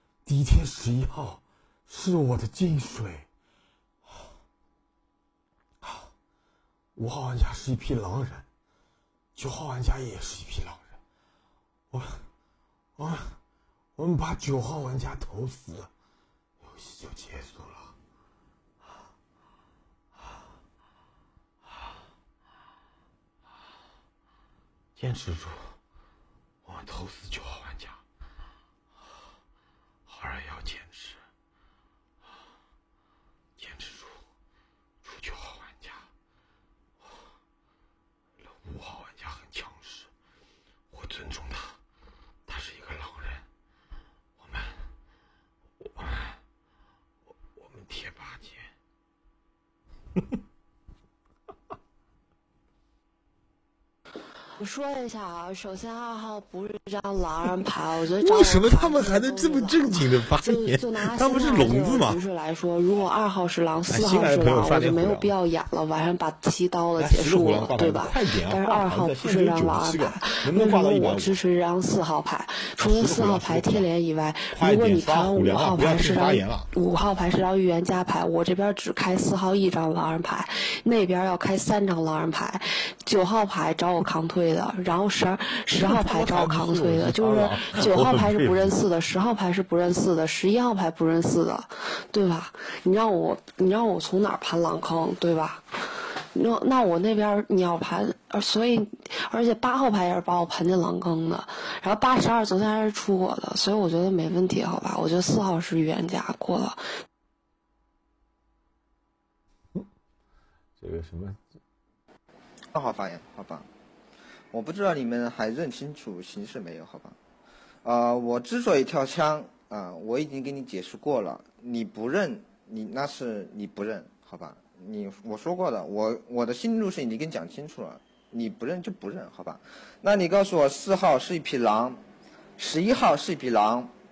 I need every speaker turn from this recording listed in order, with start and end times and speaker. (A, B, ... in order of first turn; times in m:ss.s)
0:00.2-0:03.3 A
0:05.8-0:06.1 A
0:07.0-0:08.4 A
0:09.4-0:11.0 A
0:11.9-0:12.2 A
0:13.0-0:13.4 A
0:14.0-0:15.9 A
0:16.6-0:17.9 A
0:25.0-0:25.8 A
0:26.6-0:28.0 A
0:30.1-0:31.2 A
0:33.6-0:34.2 A
0:35.0-0:36.0 A
0:38.4-0:40.1 A
0:40.9-0:41.8 A
0:42.5-0:43.4 A
0:44.4-0:44.8 A
0:46.0-0:46.4 A
0:47.5-0:48.7 A
0:54.6-1:35.7 B
0:58.2-1:02.2 A
1:03.9-1:05.3 A
1:07.0-1:11.4 A
1:12.8-1:13.9 A
1:14.5-1:16.7 A
1:25.8-1:28.8 A
1:36.3-1:46.8 B
1:50.8-1:51.4 A
1:52.7-1:53.7 C
1:54.5-1:57.2 C
1:57.8-2:12.0 C
2:12.6-2:13.9 C